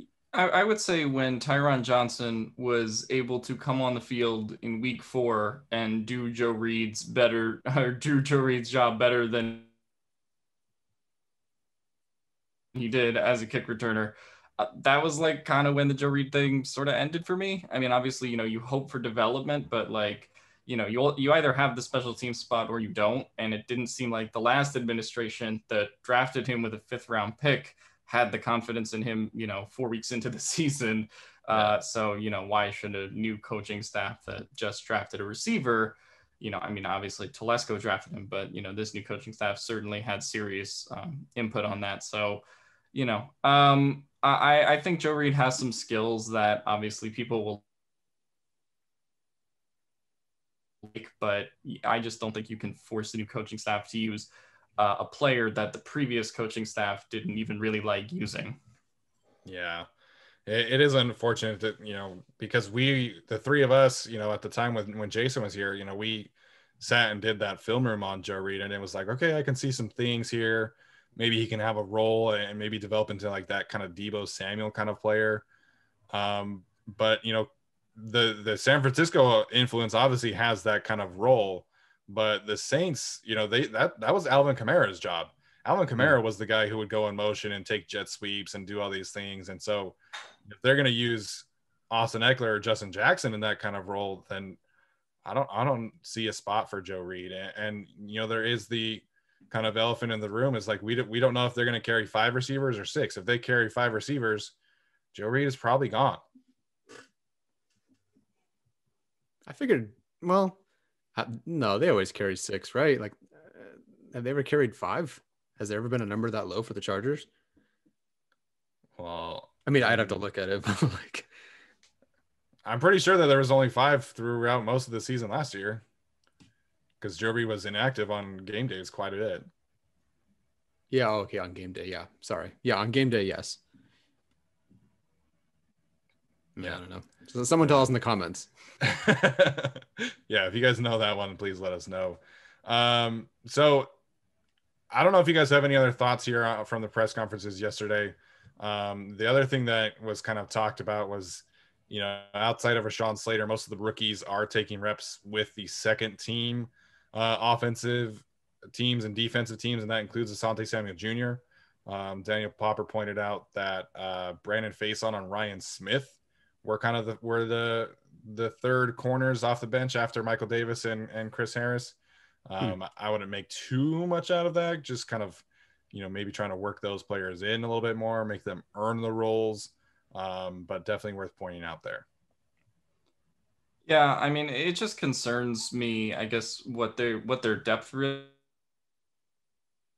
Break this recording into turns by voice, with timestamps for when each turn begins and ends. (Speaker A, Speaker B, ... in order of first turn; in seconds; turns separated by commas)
Speaker A: 0.3-9.7, Speaker A: 12.7-47.6, Speaker A: 50.8-58.6, Speaker B: 59.5-59.9, Speaker B: 60.5-75.4, Speaker B: 76.1-94.6, Speaker B: 95.2-104.5, Speaker B: 105.1-106.2, Speaker C: 109.5-110.6, Speaker C: 111.1-117.3, Speaker B: 119.0-120.2, Speaker C: 119.7-121.3, Speaker B: 122.6-125.8, Speaker B: 127.0-129.5, Speaker C: 130.9-133.6, Speaker C: 136.6-138.5, Speaker B: 138.8-143.9, Speaker B: 144.9-182.1, Speaker A: 183.9-188.3